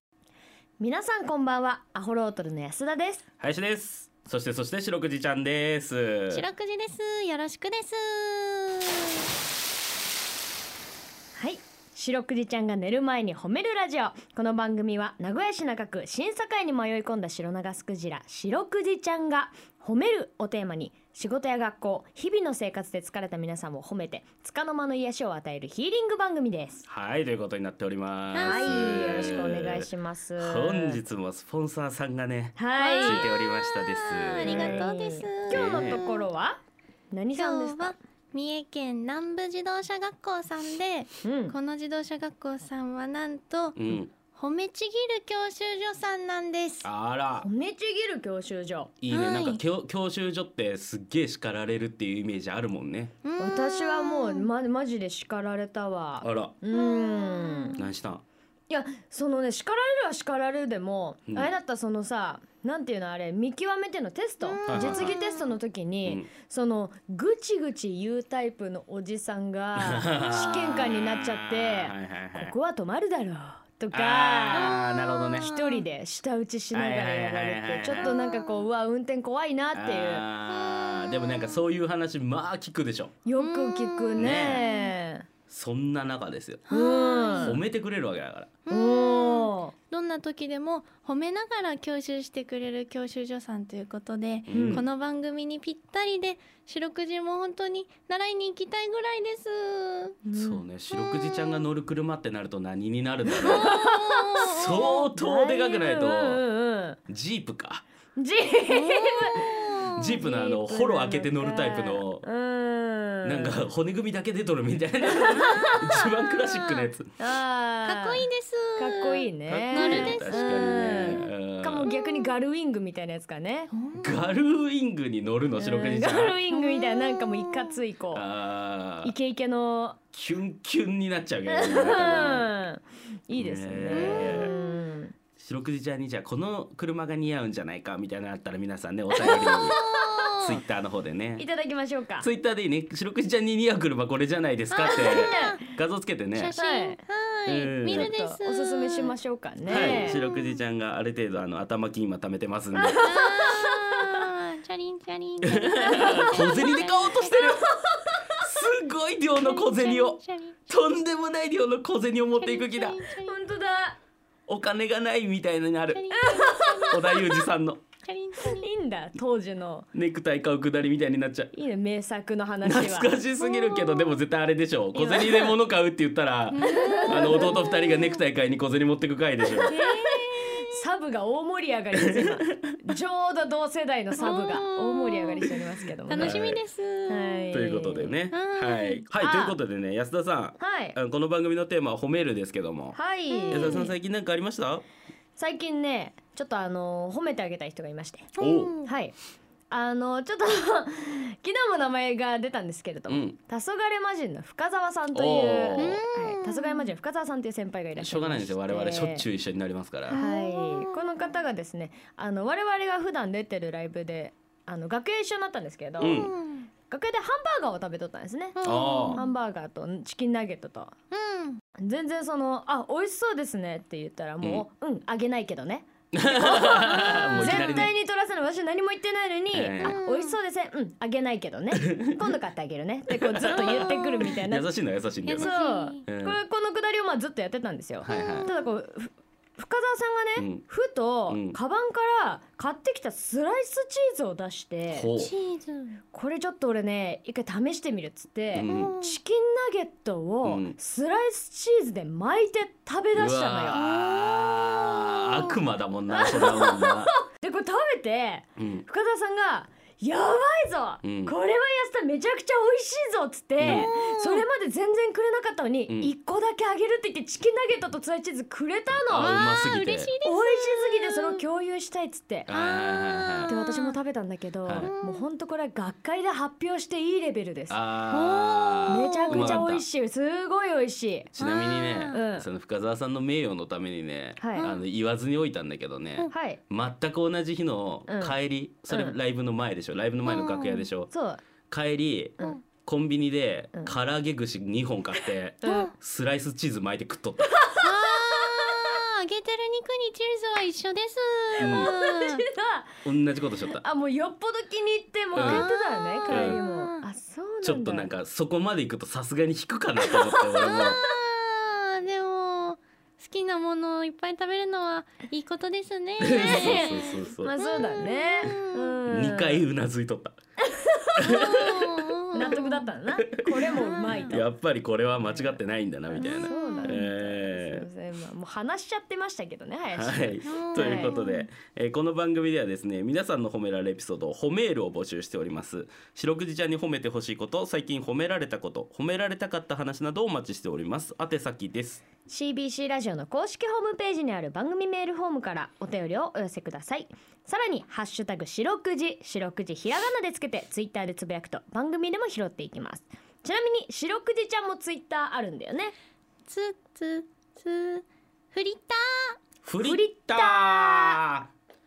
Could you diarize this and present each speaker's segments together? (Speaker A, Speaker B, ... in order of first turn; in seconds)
Speaker A: 0.8-3.2, 11.3-26.9, 28.4-31.0, 32.6-33.3, 34.4-36.6, 37.1-38.0, 41.2-41.6, 47.4-48.9, 53.4-57.8, 58.7-74.8, 75.4-80.2, 83.2-85.3, 86.7-87.6, 88.7-89.7, 94.5-94.8, 100.2-100.6, 103.4-107.0, 108.2-109.7, 110.2-113.6, 115.1-116.0, 117.2-118.3, 118.8-123.7, 125.6-128.2, 129.0-130.0, 131.5-135.2, 139.2-139.9, 141.4-142.3, 144.8-145.6, 146.6-147.0, 147.9-150.2, 152.8-154.0, 155.9-158.4, 163.2-164.0, 166.2-167.1, 168.4-169.9, 171.5-173.2, 174.9-175.5, 176.6-177.6, 179.6-186.4, 187.1-188.2, 189.2-189.6, 190.6-191.0, 192.9-193.9, 195.4-198.3, 198.8-199.1, 199.7-209.3, 210.1-216.3, 216.9-218.6, 219.1-220.9, 221.8-234.7, 235.3-245.1, 246.1-253.8, 256.1-269.4, 270.2-272.5, 273.5-277.8, 278.9-281.3, 282.1-282.5, 284.4-284.7, 286.3-286.6, 288.1-288.4, 291.1-291.4, 295.6-295.9, 297.6-298.4, 301.6-303.0, 303.7-308.1, 310.1-311.0, 316.3-319.7, 320.7-321.4, 322.3-324.5, 325.3-325.6, 326.1-331.2, 342.3-355.9, 359.8-361.2
Speaker B: 3.4-6.5, 26.9-34.9, 35.5-36.0, 43.8-44.1, 46.8-47.5, 49.0-53.1, 56.2-56.5, 57.8-58.2, 64.7-65.2, 66.0-66.3, 69.8-72.5, 73.9-75.5, 76.7-78.2, 79.7-83.2, 84.2-84.6, 85.5-86.7, 87.4-88.5, 94.5-94.9, 100.3-103.8, 104.4-106.4, 107.1-107.8, 110.0-112.2, 113.2-117.1, 119.5-121.9, 124.0-126.4, 128.1-129.1, 130.1-132.5, 133.3-134.5, 135.4-139.8, 140.4-141.4, 142.2-146.6, 147.5-148.1, 149.7-153.0, 155.5-157.6, 158.4-163.0, 164.5-166.1, 166.9-167.8, 169.9-171.5, 172.6-179.7, 182.1-182.6, 186.2-186.6, 187.5-193.0, 193.5-194.8, 198.4-198.8, 203.1-203.4, 205.1-206.0, 208.0-210.2, 216.0-216.3, 218.6-219.2, 226.1-227.9, 229.5-230.0, 233.4-235.5, 236.1-236.4, 238.0-238.5, 240.4-240.6, 241.3-241.6, 244.9-245.3, 248.5-248.9, 250.4-250.8, 253.1-257.1, 258.6-258.9, 261.0-261.3, 263.6-263.9, 268.9-270.1, 272.5-273.5, 274.6-274.9, 277.7-279.8, 281.4-291.1, 291.7-297.5, 301.6-301.9, 303.0-303.8, 305.4-305.7, 306.3-306.6, 307.6-311.0, 316.2-318.0, 319.1-320.4, 321.2-321.9, 323.2-327.9, 329.9-342.0, 359.6-361.5
Speaker C: 6.3-9.2, 28.3-29.5, 32.8-36.3, 37.4-46.9, 49.1-49.6, 53.2-54.5, 56.7-57.9, 64.4-65.6, 74.5-75.8, 77.9-78.7, 80.5-81.6, 83.4-84.9, 86.7-87.6, 88.7-100.2, 100.9-101.7, 103.4-105.0, 108.7-110.1, 115.5-115.7, 116.3-116.9, 117.8-121.3, 122.0-122.3, 123.7-124.3, 126.5-127.8, 133.9-134.7, 139.2-140.6, 144.7-145.7, 146.3-149.2, 149.7-150.6, 153.0-157.6, 159.4-160.6, 162.4-163.3, 165.9-167.5, 168.0-168.7, 173.4-174.2, 176.5-178.2, 179.7-180.8, 184.2-187.6, 188.3-189.1, 193.3-193.9, 198.4-198.9, 205.8-206.9, 210.1-211.0, 216.0-216.7, 218.6-219.3, 221.1-221.6, 227.3-227.7, 229.8-230.4, 233.6-234.3, 235.3-236.0, 238.1-238.5, 245.1-246.0, 248.6-249.2, 253.7-255.6, 263.6-264.4, 269.1-271.4, 272.5-273.9, 274.8-275.2, 278.1-279.7, 281.4-282.2, 290.2-290.9, 295.6-295.9, 297.8-302.4, 305.4-307.1, 310.6-319.0, 321.2-322.9, 323.7-324.4, 326.2-327.1, 330.5-331.5, 356.5-359.4